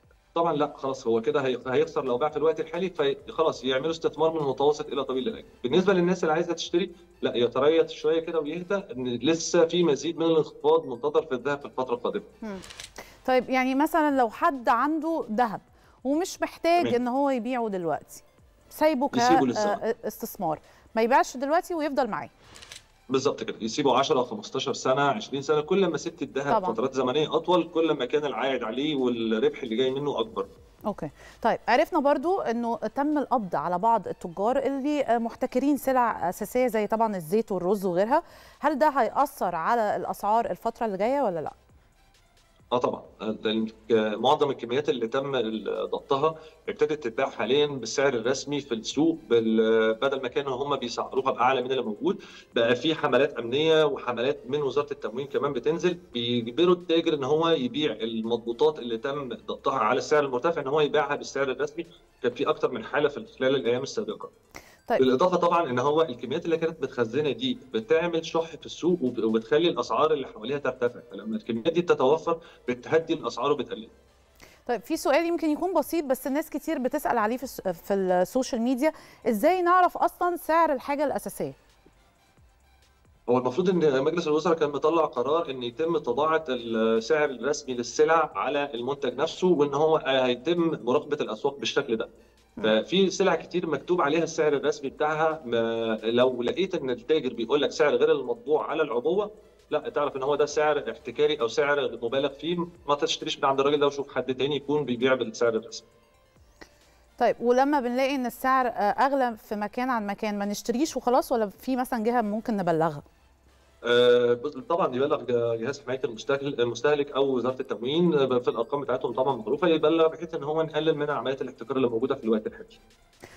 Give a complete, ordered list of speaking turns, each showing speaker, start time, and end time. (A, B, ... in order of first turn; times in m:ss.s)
0:00.3-0:12.2 A
0:13.2-0:22.3 B
0:19.1-0:19.8 A
0:23.1-0:30.5 A
0:26.5-0:26.8 B
0:30.9-0:41.5 B
0:42.7-1:04.3 A
1:05.0-1:13.9 A
1:14.6-1:21.6 B
1:23.3-1:32.1 A
1:32.6-1:45.8 A
1:47.2-1:53.0 B
1:53.8-2:02.8 A